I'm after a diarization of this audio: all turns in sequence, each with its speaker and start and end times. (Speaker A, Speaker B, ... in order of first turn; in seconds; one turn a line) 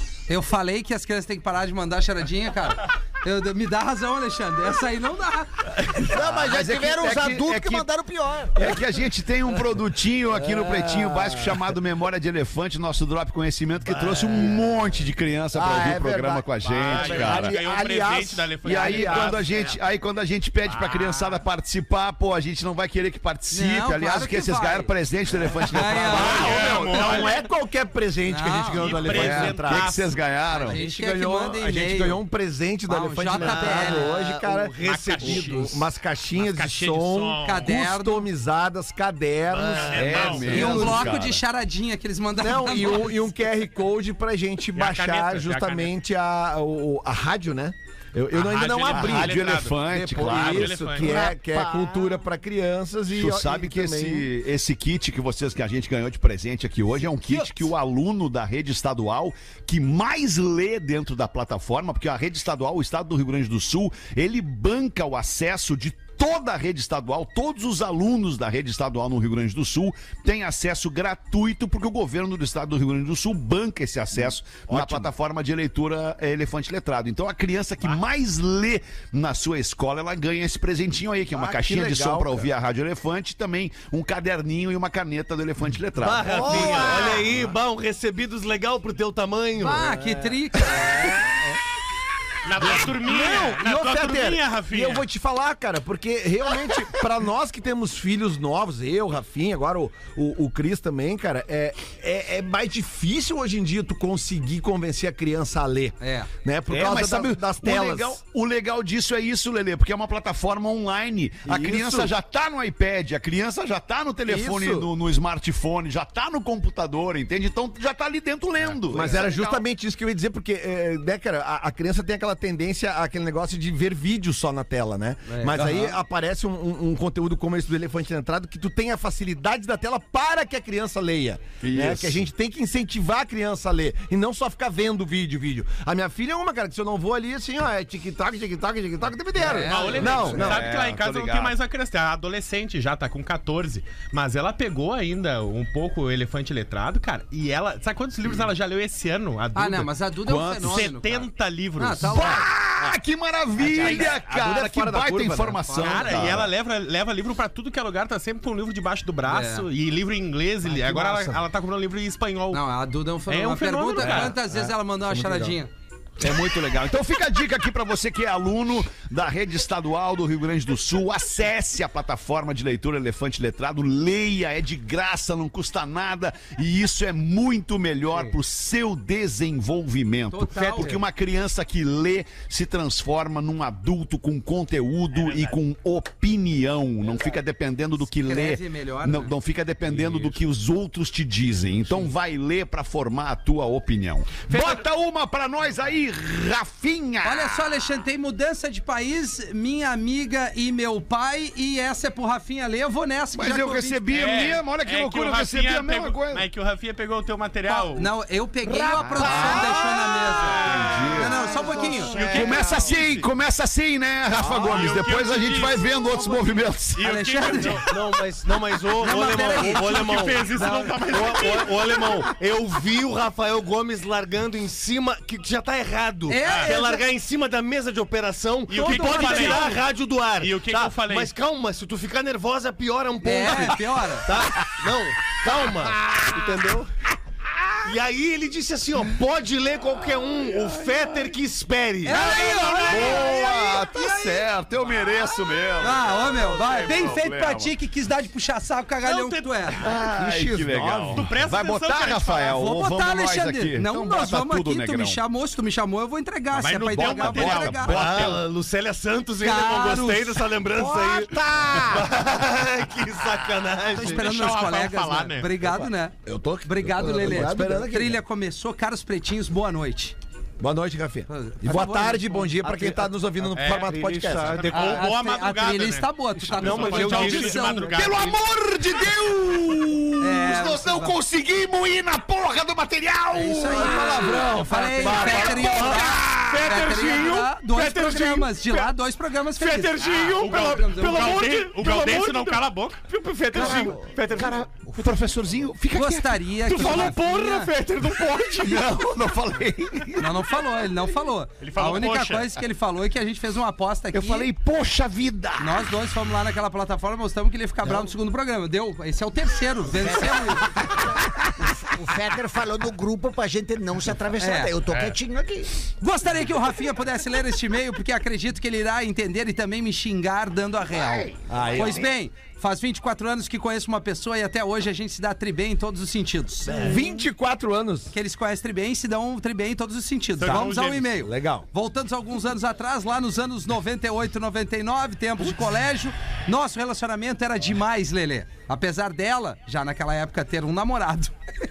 Speaker A: 0.3-5.7
Speaker B: 6.0-8.8
Speaker C: 6.1-7.9
Speaker C: 8.6-17.6
Speaker D: 10.3-11.8
Speaker E: 13.9-14.5
Speaker D: 15.5-19.8
Speaker F: 16.6-19.4
Speaker C: 18.6-26.9
Speaker A: 23.5-24.9
Speaker A: 25.7-26.9
Speaker D: 25.9-29.9
Speaker F: 26.1-27.5
Speaker A: 28.3-28.9
Speaker F: 28.8-30.6
Speaker C: 29.1-30.8
Speaker A: 30.6-32.2
Speaker D: 30.7-41.0
Speaker A: 32.9-34.2
Speaker E: 33.3-35.7
Speaker F: 34.8-37.7
Speaker A: 37.4-38.3
Speaker E: 39.5-41.0
Speaker F: 39.9-40.7
Speaker C: 39.9-41.4
Speaker A: 40.5-43.3
Speaker D: 42.4-54.3
Speaker F: 44.8-46.0
Speaker F: 48.3-51.3
Speaker C: 48.9-50.9
Speaker B: 51.0-52.2
Speaker C: 53.1-87.2
Speaker D: 74.2-75.1
Speaker D: 81.3-82.5
Speaker E: 86.0-90.0
Speaker D: 86.3-87.5
Speaker F: 86.4-87.2
Speaker B: 86.5-86.9
Speaker A: 89.6-91.2
Speaker D: 90.1-91.5
Speaker F: 92.5-95.1
Speaker D: 92.6-108.2
Speaker A: 106.0-106.3
Speaker C: 106.7-119.7
Speaker D: 111.5-112.1
Speaker D: 114.3-114.9
Speaker D: 118.9-140.7
Speaker A: 125.3-126.0
Speaker C: 131.6-132.3
Speaker A: 139.4-140.5
Speaker F: 139.6-150.0
Speaker C: 140.3-141.6
Speaker A: 149.6-152.5
Speaker C: 150.2-150.9
Speaker F: 150.6-152.2
Speaker C: 152.1-156.5
Speaker D: 153.6-156.5
Speaker F: 155.8-162.6
Speaker A: 159.3-159.7
Speaker E: 160.8-161.3
Speaker A: 162.5-165.7
Speaker F: 163.3-164.4
Speaker D: 164.0-165.6
Speaker C: 166.2-197.8
Speaker A: 180.3-181.0
Speaker A: 188.2-189.3
Speaker A: 189.9-190.3
Speaker A: 197.2-204.2
Speaker C: 203.3-206.4
Speaker F: 204.1-208.1
Speaker A: 207.7-212.2
Speaker B: 208.6-212.4
Speaker C: 209.0-209.9
Speaker F: 210.4-211.3
Speaker C: 210.5-211.6
Speaker F: 212.1-213.3
Speaker C: 212.1-217.1
Speaker E: 212.2-212.5
Speaker A: 214.5-214.9
Speaker F: 214.7-215.8
Speaker A: 216.1-217.9
Speaker F: 217.0-217.9
Speaker E: 217.8-236.9
Speaker A: 219.0-220.8
Speaker F: 219.8-222.2
Speaker A: 226.3-227.1
Speaker F: 226.4-226.7
Speaker F: 228.7-229.8
Speaker A: 228.7-229.8
Speaker F: 230.4-231.3
Speaker A: 233.2-234.3
Speaker C: 236.0-236.3
Speaker E: 237.8-242.5
Speaker C: 240.0-241.3
Speaker A: 242.0-244.4
Speaker F: 242.1-243.3
Speaker C: 242.8-247.7
Speaker A: 245.8-249.8
Speaker E: 249.1-249.7
Speaker C: 249.8-255.2
Speaker D: 249.9-251.3
Speaker F: 251.2-252.6
Speaker A: 252.5-257.9
Speaker F: 256.5-258.4
Speaker C: 256.9-258.5
Speaker E: 257.8-264.3
Speaker A: 259.4-260.5
Speaker B: 260.7-262.1
Speaker A: 263.9-270.2
Speaker F: 264.0-265.5
Speaker D: 265.6-268.2
Speaker D: 270.6-274.7
Speaker A: 271.3-272.9
Speaker E: 272.7-273.0
Speaker F: 273.5-273.9
Speaker E: 273.7-275.1
Speaker F: 274.5-278.4
Speaker A: 274.7-278.1
Speaker E: 276.4-278.1
Speaker C: 277.9-284.4
Speaker A: 280.2-281.2
Speaker A: 283.3-291.4
Speaker D: 283.6-285.8
Speaker C: 285.0-286.8
Speaker E: 285.8-288.9
Speaker E: 289.6-294.6
Speaker F: 290.2-293.0
Speaker B: 293.5-295.3
Speaker C: 293.5-297.2
Speaker A: 295.9-297.7
Speaker E: 296.7-298.9
Speaker C: 298.0-300.6
Speaker A: 300.2-304.5
Speaker F: 301.6-302.6
Speaker C: 304.1-305.9
Speaker A: 305.6-310.8
Speaker B: 310.0-315.7
Speaker A: 314.4-314.8
Speaker A: 316.0-327.0
Speaker C: 320.9-322.1
Speaker D: 321.5-322.1
Speaker D: 326.7-328.1
Speaker A: 328.1-341.3
Speaker F: 330.4-331.1
Speaker D: 330.5-331.7